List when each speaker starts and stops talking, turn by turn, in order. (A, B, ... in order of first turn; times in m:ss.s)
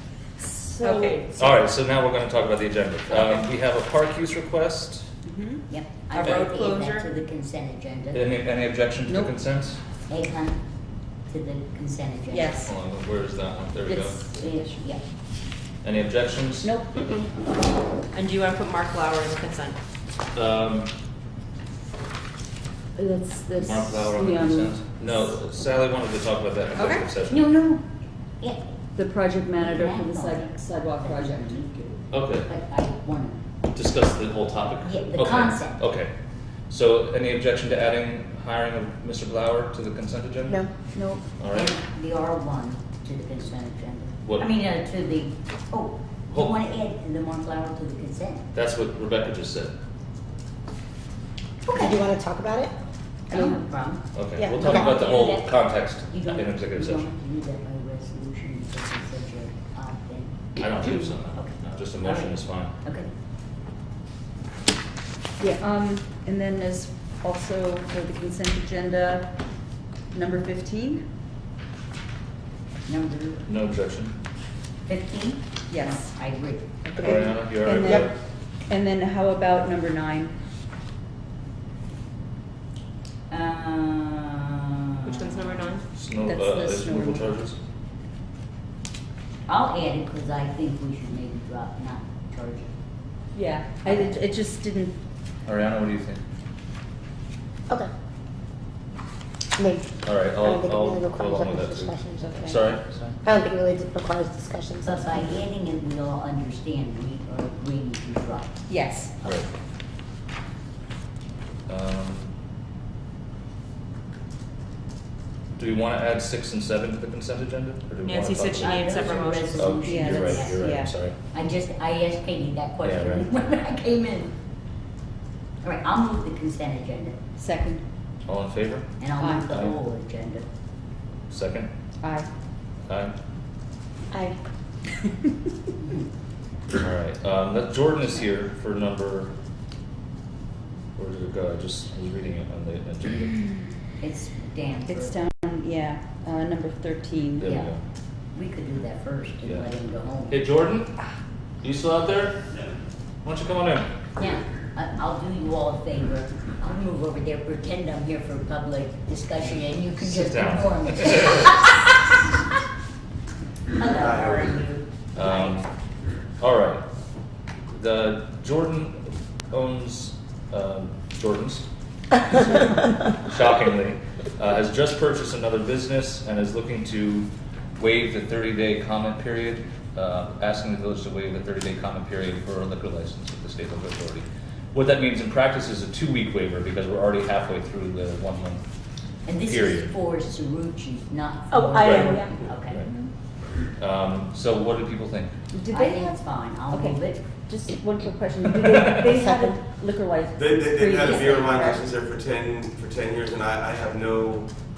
0:00.4-0:02.0 A
0:00.8-0:01.4 B
0:01.4-0:05.1 C
0:03.0-0:03.8 A
0:05.2-0:05.6 A
0:05.7-0:08.3 D
0:06.1-0:07.0 B
0:06.2-0:06.5 C
0:08.1-0:09.8 C
0:09.0-0:09.6 A
0:10.1-0:10.6 D
0:11.3-0:12.7 D
0:12.3-0:12.7 A
0:12.7-0:14.5 C
0:13.7-0:14.8 A
0:14.3-0:15.0 D
0:15.8-0:16.8 C
0:16.6-0:16.9 A
0:18.1-0:19.8 B
0:20.3-0:20.9 C
0:22.9-0:24.9 A
0:23.6-0:27.5 C
0:26.7-0:27.0 B
0:27.3-0:27.9 D
0:28.9-0:31.6 A
0:29.6-0:33.4 D
0:32.1-0:32.5 C
0:33.7-0:36.1 C
0:34.8-0:35.8 D
0:36.7-0:40.6 C
0:40.4-0:40.7 E
0:40.9-0:48.5 D
0:41.4-0:41.7 C
0:48.5-0:49.7 C
0:51.7-0:52.7 E
0:53.3-0:53.5 E
0:53.3-1:03.1 D
0:54.1-0:57.0 C
0:54.4-0:54.9 E
1:00.6-1:02.7 C
1:05.4-1:09.3 A
1:10.1-1:11.1 A
1:12.8-1:13.5 D
1:13.5-1:14.2 C
1:14.9-1:16.7 D
1:15.7-1:16.1 A
1:16.8-1:18.1 A
1:17.0-1:18.1 C
1:17.6-1:18.1 E
1:18.7-1:20.4 A
1:23.3-1:25.7 D
1:25.0-1:25.9 B
1:25.9-1:27.6 C
1:26.2-1:27.4 A
1:29.5-1:32.7 D
1:33.3-1:35.0 A
1:33.8-1:34.2 D
1:35.4-1:36.2 C
1:39.6-1:45.2 E
1:40.0-1:43.2 C
1:44.8-1:48.6 D
1:48.7-1:49.2 A
1:49.2-1:49.5 C
1:51.7-1:52.3 C
1:55.6-1:58.9 C
1:58.0-1:59.9 B
1:58.6-2:04.3 D
1:59.6-2:01.2 C
1:59.9-2:01.1 A
2:02.8-2:03.2 C
2:05.6-2:07.2 D
2:07.4-2:07.8 A
2:08.2-2:09.8 C
2:09.0-2:10.5 D
2:09.2-2:09.5 A
2:11.3-2:11.7 C
2:11.6-2:12.3 A
2:12.9-2:13.1 C
2:16.8-2:19.3 C
2:16.8-2:17.1 A
2:18.2-2:18.5 A
2:21.0-2:23.3 C
2:24.0-2:25.3 D
2:24.8-2:27.6 A
2:27.4-2:27.8 C
2:27.4-2:27.8 D
2:28.3-2:30.4 D
2:30.3-2:30.9 C
2:31.6-2:32.4 C
2:33.2-2:33.9 C
2:34.2-2:42.0 D
2:40.0-2:41.4 C
2:43.8-2:45.6 D
2:43.9-2:44.6 F
2:45.2-2:45.7 C
2:46.4-2:46.8 C
2:47.7-2:51.7 C
2:52.2-3:08.6 C
3:09.2-3:12.8 D
3:09.4-3:09.9 C
3:11.7-3:13.1 A
3:11.9-3:12.9 C
3:13.8-3:15.3 C
3:15.5-3:21.8 A
3:15.7-3:17.2 D
3:18.8-3:19.5 E
3:20.3-3:24.5 F
3:21.0-3:21.5 D